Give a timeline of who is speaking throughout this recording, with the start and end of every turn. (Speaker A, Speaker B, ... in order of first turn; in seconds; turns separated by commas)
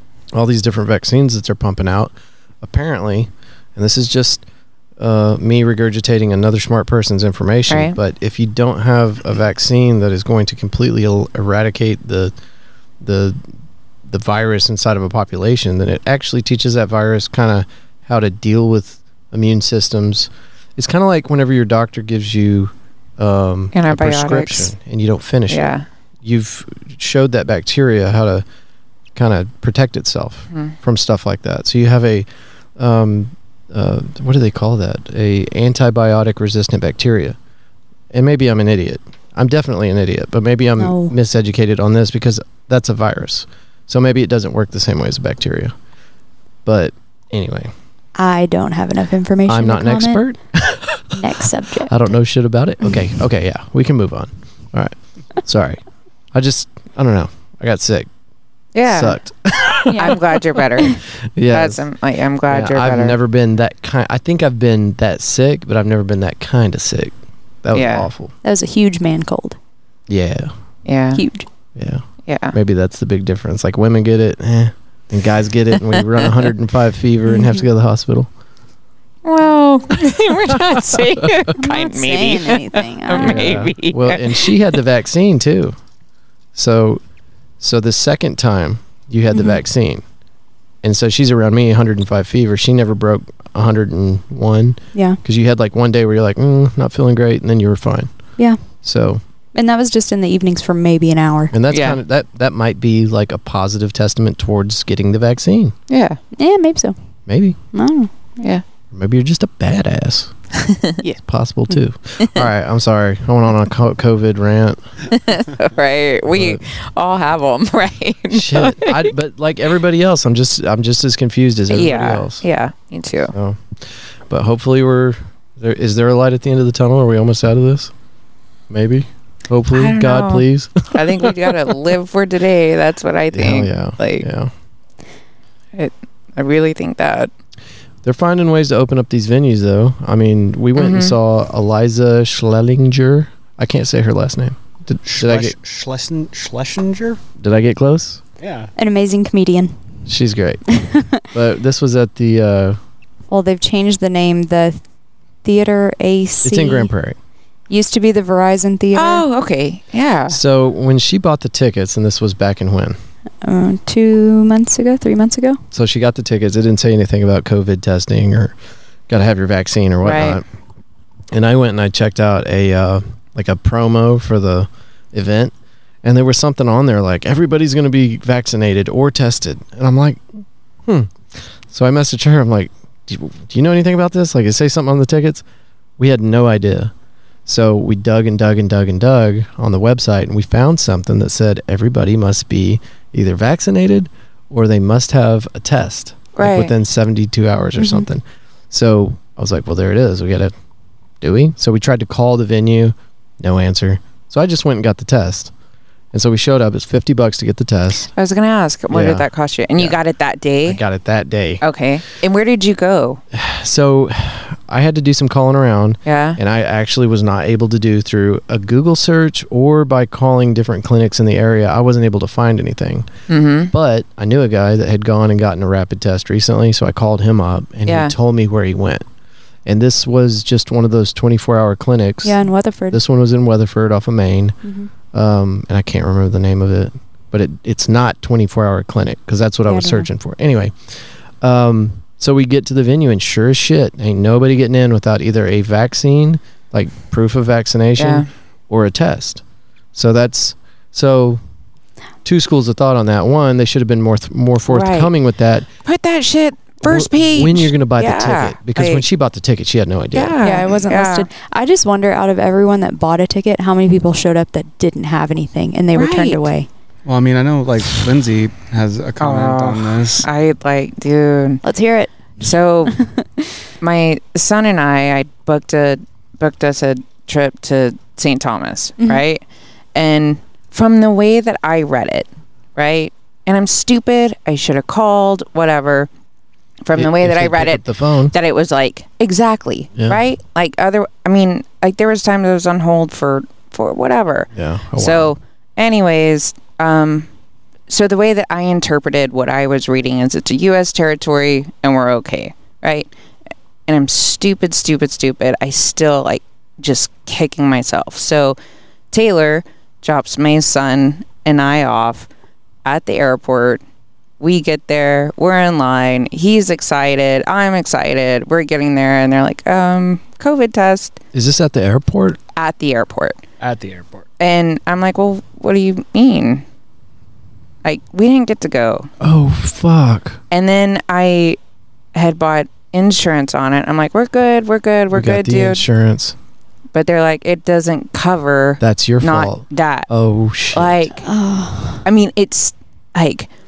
Speaker A: 0.3-4.4, Speaker A: 5.0-12.3, Speaker B: 7.7-8.0, Speaker A: 13.0-13.4, Speaker A: 14.1-25.7, Speaker B: 23.7-24.7, Speaker B: 25.5-25.9, Speaker A: 26.2-28.4, Speaker A: 29.1-37.4, Speaker A: 38.1-45.7, Speaker C: 40.8-41.1, Speaker A: 46.6-47.7, Speaker C: 48.2-50.2, Speaker A: 49.5-51.3, Speaker C: 51.1-52.0, Speaker A: 51.8-55.8, Speaker A: 56.3-58.1, Speaker B: 58.8-59.2, Speaker A: 58.9-60.4, Speaker C: 59.9-60.2, Speaker B: 59.9-61.0, Speaker A: 60.9-61.8, Speaker B: 61.5-63.2, Speaker A: 62.5-68.3, Speaker B: 67.7-68.1, Speaker C: 68.4-69.6, Speaker A: 70.1-70.5, Speaker B: 70.9-71.2, Speaker C: 71.1-71.5, Speaker A: 71.8-78.3, Speaker B: 72.3-72.5, Speaker C: 77.3-77.6, Speaker B: 79.2-84.6, Speaker A: 80.8-81.3, Speaker C: 81.6-83.6, Speaker A: 83.2-85.8, Speaker A: 86.5-87.0, Speaker A: 87.6-90.0, Speaker C: 89.3-89.6, Speaker A: 90.8-98.1, Speaker A: 98.8-99.2, Speaker C: 99.5-101.5, Speaker A: 101.5-105.8, Speaker B: 101.7-102.0, Speaker B: 105.9-106.2, Speaker C: 106.4-107.0, Speaker A: 107.3-107.6, Speaker C: 107.7-108.1, Speaker A: 108.9-110.3, Speaker B: 110.6-111.0, Speaker A: 111.2-114.8, Speaker B: 115.1-119.1, Speaker A: 116.3-116.6, Speaker A: 118.3-122.4, Speaker B: 121.7-123.3, Speaker A: 123.3-127.9, Speaker A: 128.7-131.7, Speaker B: 129.7-134.2, Speaker A: 133.3-134.5, Speaker B: 135.8-137.3, Speaker A: 138.0-145.6, Speaker B: 140.8-141.2, Speaker D: 145.1-147.2, Speaker A: 147.4-148.2, Speaker D: 148.4-148.7, Speaker C: 148.8-149.8, Speaker A: 150.1-152.8, Speaker C: 150.7-151.2, Speaker C: 153.3-154.8, Speaker C: 155.4-156.9, Speaker A: 156.4-157.2, Speaker C: 157.7-159.2, Speaker B: 158.9-160.4, Speaker A: 160.3-163.0, Speaker C: 163.4-165.6, Speaker A: 165.7-168.6, Speaker A: 169.1-170.4, Speaker B: 170.0-170.4, Speaker A: 171.3-180.2, Speaker A: 180.9-185.4, Speaker A: 186.0-186.9, Speaker A: 187.5-200.5, Speaker B: 196.4-196.7, Speaker C: 197.8-198.1, Speaker A: 201.2-205.5, Speaker A: 206.1-208.1, Speaker B: 208.2-210.8, Speaker A: 208.9-209.3, Speaker A: 210.7-211.6, Speaker B: 211.6-213.2, Speaker A: 213.3-223.1, Speaker B: 216.1-216.4, Speaker B: 223.3-223.7, Speaker A: 223.7-229.1, Speaker B: 227.9-228.1, Speaker A: 229.7-234.6, Speaker C: 232.2-233.0, Speaker C: 234.6-234.9, Speaker A: 235.1-249.4, Speaker C: 239.7-240.1, Speaker B: 248.0-248.3, Speaker A: 249.9-251.4, Speaker A: 252.2-255.7, Speaker B: 254.7-255.1, Speaker B: 255.8-259.1, Speaker A: 256.8-260.4, Speaker B: 260.1-261.3, Speaker C: 260.4-266.7, Speaker B: 265.9-266.5, Speaker D: 267.1-270.3, Speaker B: 269.2-271.6, Speaker C: 271.6-272.1, Speaker B: 272.4-273.0, Speaker C: 272.9-273.6, Speaker B: 273.8-279.4, Speaker B: 279.9-286.1, Speaker B: 286.8-297.3, Speaker A: 286.9-288.4, Speaker A: 290.0-290.2, Speaker A: 294.5-295.4, Speaker B: 297.9-303.1, Speaker B: 303.9-308.6, Speaker B: 309.1-312.3, Speaker B: 312.9-313.8, Speaker B: 314.4-321.2, Speaker A: 321.3-322.4, Speaker B: 322.6-323.4, Speaker D: 323.6-324.3, Speaker B: 324.4-326.6, Speaker B: 327.8-329.1, Speaker A: 329.2-330.4, Speaker B: 330.5-331.6, Speaker B: 332.1-335.9, Speaker A: 335.1-336.4, Speaker B: 336.9-340.1, Speaker A: 338.8-341.1, Speaker B: 340.7-341.3, Speaker C: 341.2-342.0, Speaker B: 342.0-343.5